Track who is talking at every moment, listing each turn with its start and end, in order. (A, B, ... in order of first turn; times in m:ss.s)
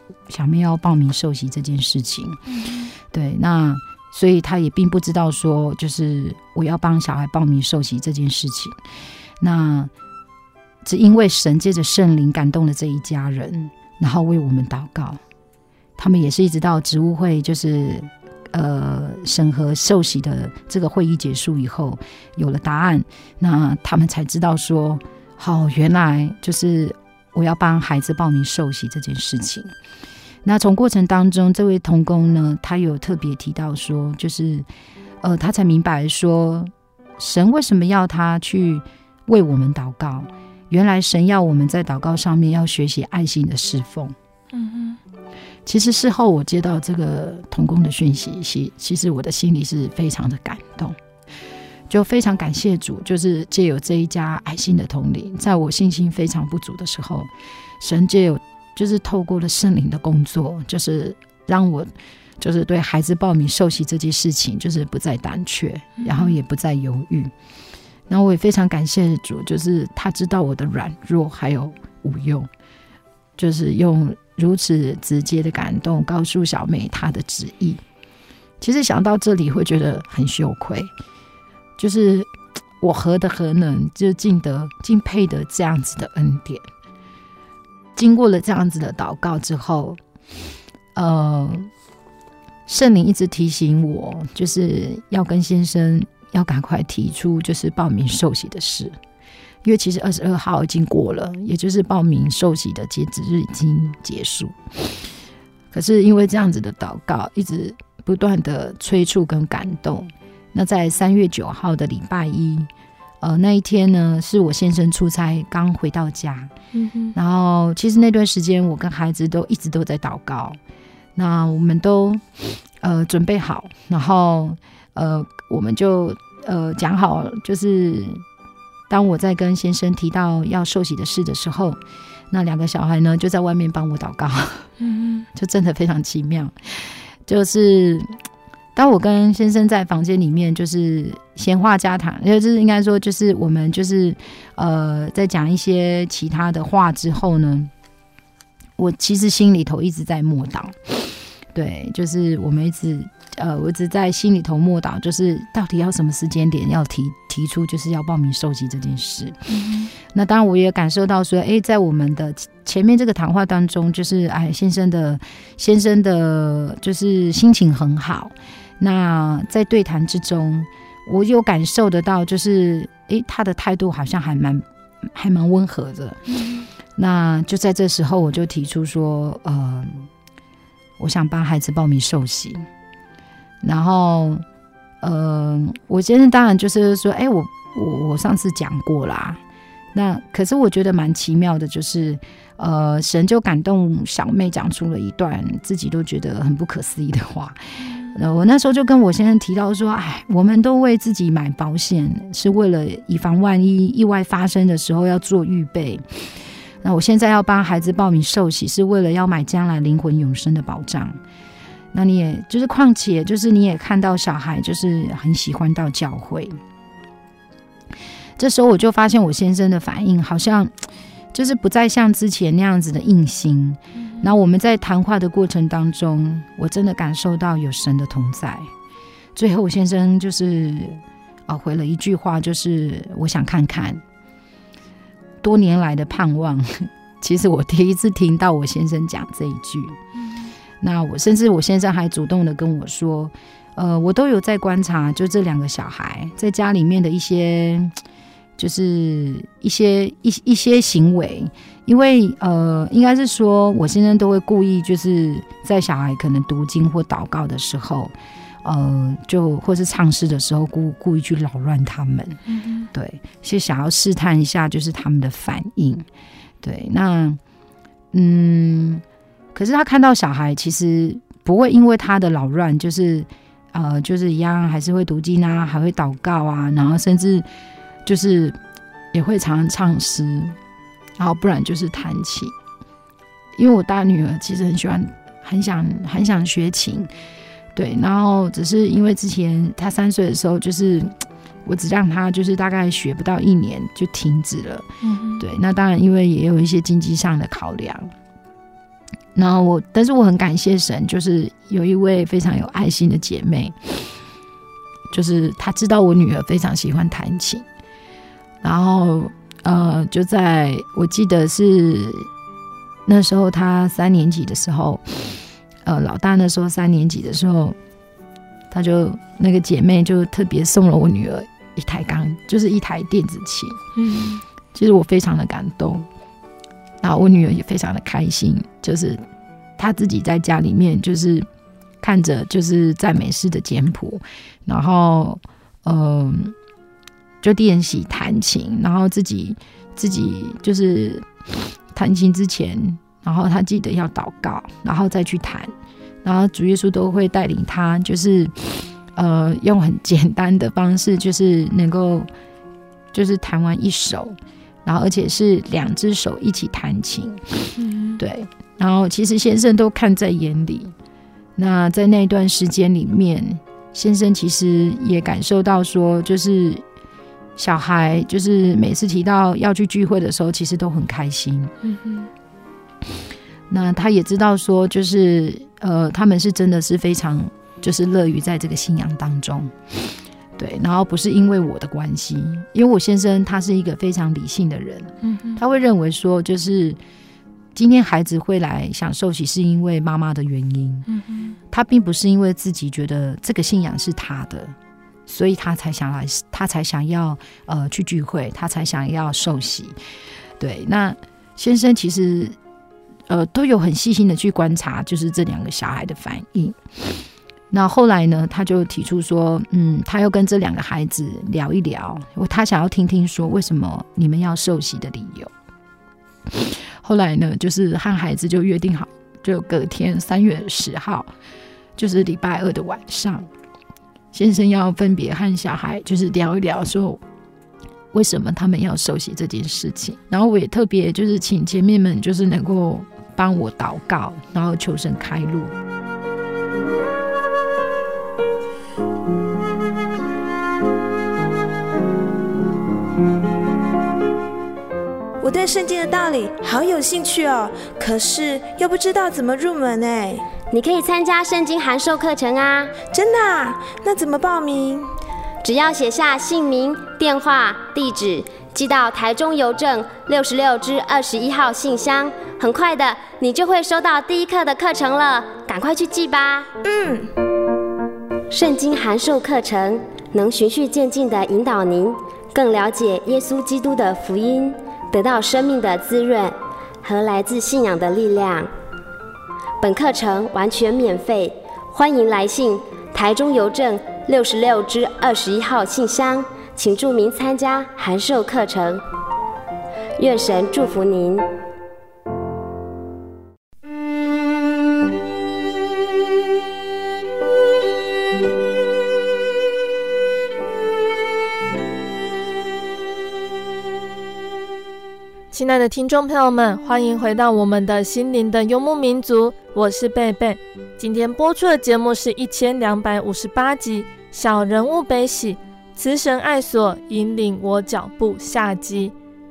0:00.3-0:02.4 A
0:02.6-0:02.9 B
0:03.0-0:08.8 A
0:09.4-0:09.9 A
0:10.8-0:15.2 A
0:16.0-0:29.7 A
0:30.4-0:34.7 A
0:35.2-0:44.2 A
0:44.6-0:45.0 B
0:45.7-0:51.0 A
0:51.9-0:57.3 A
0:57.8-1:07.3 A
1:06.0-1:06.3 B
1:08.1-1:12.5 A
1:13.4-1:17.8 A
1:18.6-1:20.9 A
1:21.8-1:26.7 A
1:28.0-1:30.0 A
1:31.0-1:31.7 A
1:32.7-1:39.0 A
1:39.6-1:45.0 A
1:45.7-1:52.7 A
1:53.2-1:56.5 A
1:56.8-1:57.1 B
1:57.1-2:00.6 A
2:01.2-2:02.2 A
2:02.8-2:08.2 A
2:08.9-2:11.8 A
2:12.3-2:14.7 A
2:14.8-2:15.3 B
2:15.3-2:18.1 A
2:18.8-2:27.7 A
2:28.8-2:31.0 A
2:31.5-2:39.4 A
2:39.5-2:39.9 B
2:40.0-2:56.2 A
2:57.0-3:00.1 A
3:01.0-3:02.7 A
3:03.6-3:04.4 A
3:05.0-3:09.4 A
3:09.9-3:26.3 A
3:26.8-3:31.2 A
3:31.9-3:36.6 A
3:38.4-3:40.7 A
3:41.3-3:48.7 A
3:49.4-3:54.0 A
3:55.4-4:00.0 A
4:00.8-4:07.9 A
4:08.6-4:18.1 A
4:18.6-4:22.4 A
4:22.5-4:22.9 B
4:22.9-4:26.1 A
4:26.6-4:27.4 A
4:28.1-4:37.5 A
4:38.0-4:38.6 A
4:39.1-4:40.6 A
4:41.2-4:42.5 A
4:43.6-4:47.1 A
4:47.8-4:54.9 A
4:55.0-4:55.4 B
4:55.4-4:58.1 A
4:59.4-5:04.2 A
5:05.1-5:07.6 A
5:08.6-5:12.3 A
5:13.1-5:17.8 A
5:18.7-5:23.8 A
5:24.0-5:24.4 B
5:24.7-5:26.1 A
5:27.0-5:29.2 A
5:29.8-5:31.5 A
5:32.0-5:36.6 A
5:37.4-5:41.3 A
5:41.9-5:45.7 A
5:46.2-5:52.3 A
5:53.1-5:57.4 A
5:57.8-5:58.2 B
5:58.2-6:00.9 A
6:01.6-6:06.8 A
6:07.6-6:11.7 A
6:11.8-6:12.3 B
6:13.7-6:20.0 A
6:20.6-6:27.0 A
6:25.2-6:25.6 B
6:27.8-6:31.1 A
6:31.1-6:31.6 B
6:31.7-6:34.8 A
6:35.3-6:40.0 A
6:40.6-6:42.6 A
6:43.3-6:46.8 A
6:47.7-6:55.5 A
6:56.5-7:01.3 A
7:02.0-7:03.5 A
7:04.3-7:07.2 A
7:08.1-7:15.7 A
7:25.4-7:30.4 C
7:30.7-7:32.9 D
7:33.0-7:35.1 C
7:35.6-7:46.7 D
7:46.8-7:47.3 C
7:48.5-7:58.7 D
7:59.8-8:09.0 D
8:10.2-8:11.5 D
8:25.5-8:39.1 B